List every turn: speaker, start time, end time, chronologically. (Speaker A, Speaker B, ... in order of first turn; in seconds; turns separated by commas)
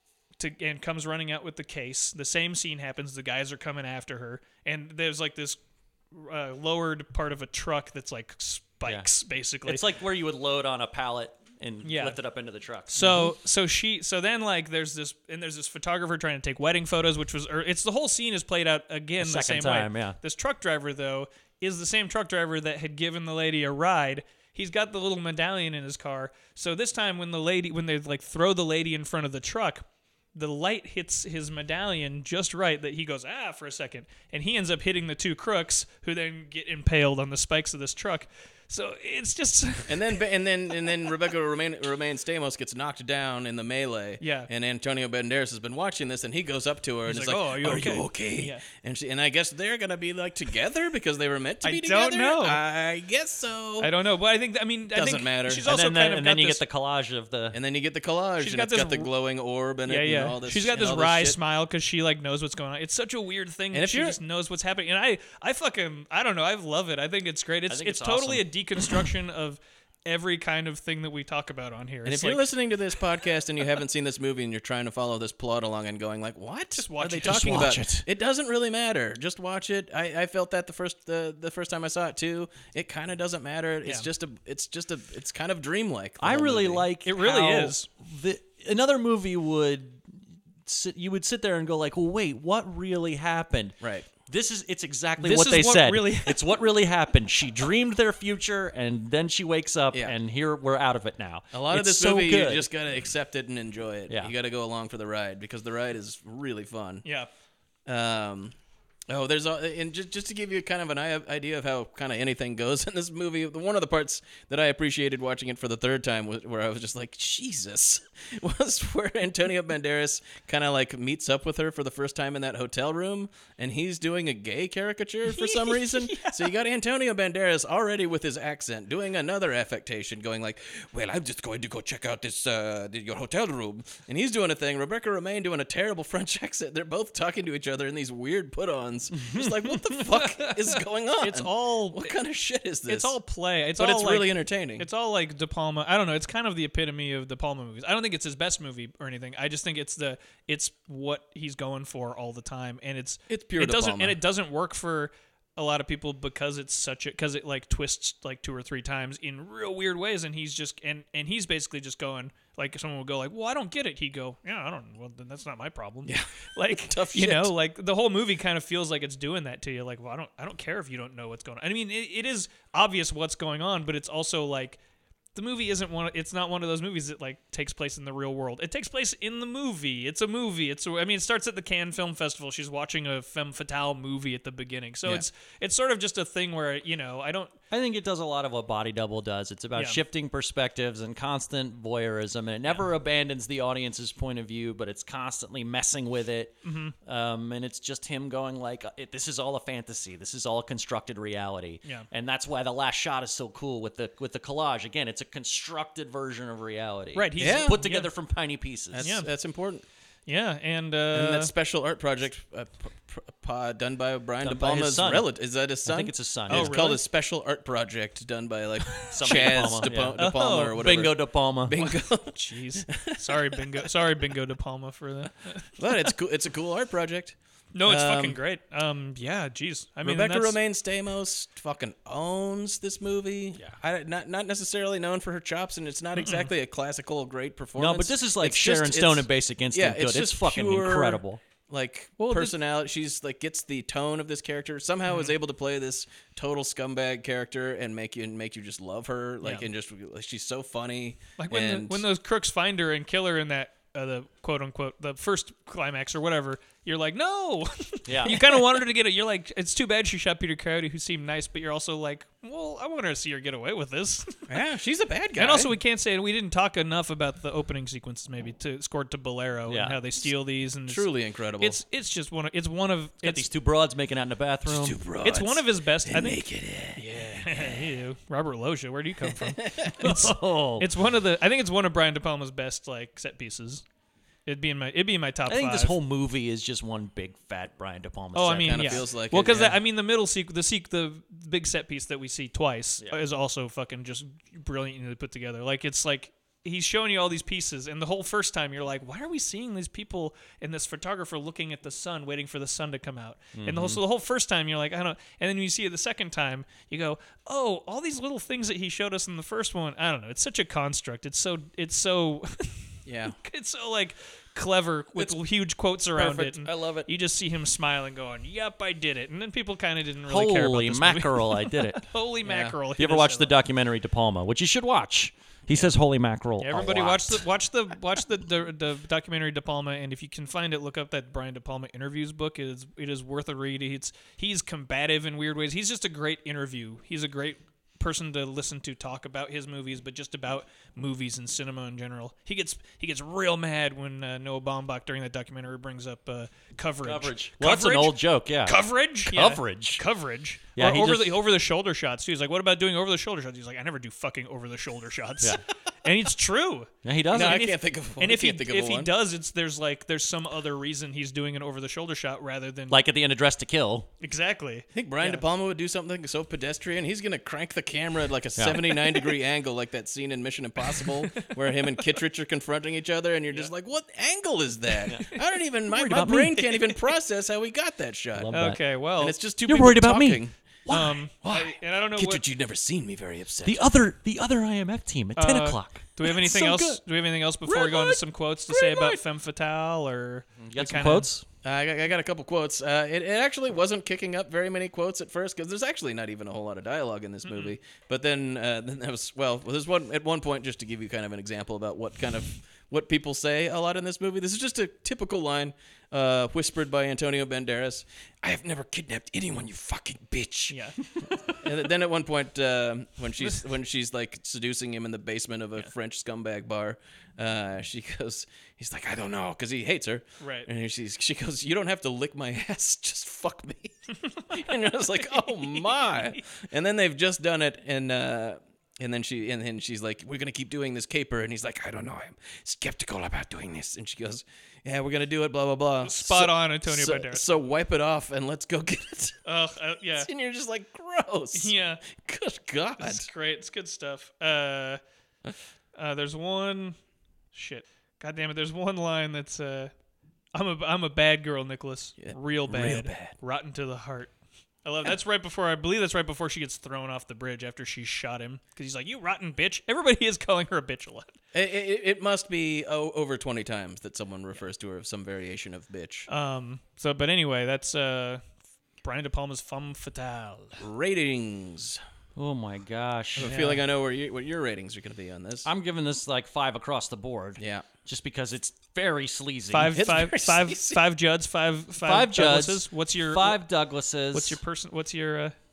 Speaker A: 0.4-5.6, Speaker A: 6.1-9.8, Speaker B: 9.6-13.3, Speaker A: 11.8-12.2, Speaker A: 12.9-29.8, Speaker B: 19.2-20.2, Speaker A: 30.3-39.9, Speaker C: 39.9-53.9, Speaker A: 44.2-44.5, Speaker A: 47.1-48.6, Speaker A: 51.6-52.6, Speaker A: 53.8-56.6, Speaker C: 54.9-55.6, Speaker B: 55.6-57.6, Speaker C: 57.5-61.4, Speaker A: 58.4-59.1, Speaker A: 59.9-72.4, Speaker C: 63.7-64.2, Speaker B: 67.7-69.0, Speaker C: 72.0-86.8, Speaker A: 76.7-77.7, Speaker B: 77.2-78.0, Speaker B: 86.2-102.7, Speaker A: 87.0-87.9, Speaker C: 93.8-94.1, Speaker A: 95.2-96.4, Speaker C: 101.5-107.0, Speaker A: 107.0-107.3, Speaker C: 107.8-108.5, Speaker C: 109.1-143.2, Speaker A: 125.3-126.5, Speaker B: 139.2-139.7, Speaker A: 140.0-140.7, Speaker A: 141.2-142.1, Speaker A: 142.9-174.8, Speaker C: 143.8-144.9, Speaker C: 153.3-154.2, Speaker C: 166.1-167.5, Speaker A: 175.3-187.5, Speaker B: 187.7-209.0, Speaker A: 189.7-190.0, Speaker A: 196.6-196.9, Speaker A: 207.1-208.1, Speaker C: 207.4-207.8, Speaker C: 208.9-209.8, Speaker A: 209.0-209.3, Speaker A: 210.3-211.5, Speaker C: 211.1-223.5, Speaker B: 214.4-215.3, Speaker B: 215.8-216.8, Speaker A: 216.5-217.0, Speaker A: 219.0-220.8, Speaker B: 219.1-220.2, Speaker B: 220.8-221.8, Speaker A: 221.8-225.7, Speaker C: 225.8-228.4, Speaker A: 227.7-230.6, Speaker C: 230.0-252.0, Speaker A: 236.2-236.5, Speaker B: 237.8-241.4, Speaker A: 242.2-242.5, Speaker A: 245.1-245.3, Speaker A: 251.4-264.4, Speaker B: 258.1-258.4, Speaker C: 264.5-265.7, Speaker A: 265.4-273.5, Speaker B: 269.7-270.0, Speaker C: 270.9-271.8, Speaker B: 273.2-275.0, Speaker C: 274.7-277.8, Speaker A: 275.2-276.4, Speaker A: 276.9-283.8, Speaker C: 279.6-279.9, Speaker B: 280.0-280.9, Speaker A: 284.4-285.9, Speaker B: 285.5-289.1, Speaker A: 288.3-312.9, Speaker C: 288.6-289.8, Speaker B: 303.6-304.0, Speaker C: 313.1-313.4, Speaker A: 313.4-323.5, Speaker B: 316.1-317.1, Speaker B: 320.2-322.1, Speaker C: 322.4-322.7, Speaker B: 323.0-327.4, Speaker A: 326.6-357.6, Speaker B: 347.0-350.0, Speaker B: 350.7-351.4, Speaker B: 357.0-357.7, Speaker C: 357.3-359.1, Speaker A: 358.2-363.0, Speaker B: 362.9-364.1, Speaker A: 364.2-365.4, Speaker C: 364.9-378.5, Speaker B: 368.6-368.8, Speaker B: 375.9-376.6, Speaker B: 378.4-378.8, Speaker A: 378.5-379.4, Speaker C: 379.2-380.5, Speaker B: 379.6-381.2, Speaker A: 380.9-382.4, Speaker C: 381.4-383.9, Speaker B: 383.6-387.0, Speaker A: 385.4-391.3, Speaker C: 387.6-389.2, Speaker B: 390.6-391.4, Speaker C: 391.6-410.8, Speaker A: 397.4-397.7, Speaker A: 410.7-411.0, Speaker C: 411.5-439.4, Speaker A: 420.4-420.7, Speaker A: 424.3-424.6, Speaker A: 425.2-426.4, Speaker A: 436.0-437.7, Speaker A: 439.4-440.3, Speaker C: 440.2-443.3, Speaker A: 441.5-442.0, Speaker A: 443.0-445.0, Speaker A: 445.9-447.0, Speaker A: 447.5-449.9, Speaker A: 450.5-454.3, Speaker C: 452.2-453.3, Speaker A: 454.8-461.3, Speaker C: 461.5-466.3, Speaker A: 466.3-468.4, Speaker A: 469.0-470.8, Speaker C: 470.8-472.0, Speaker B: 472.4-473.5, Speaker C: 473.4-475.7, Speaker A: 473.4-473.8, Speaker B: 475.6-480.1, Speaker C: 477.6-477.8, Speaker A: 479.7-483.6, Speaker C: 479.9-481.0, Speaker B: 482.0-484.6, Speaker A: 484.3-485.5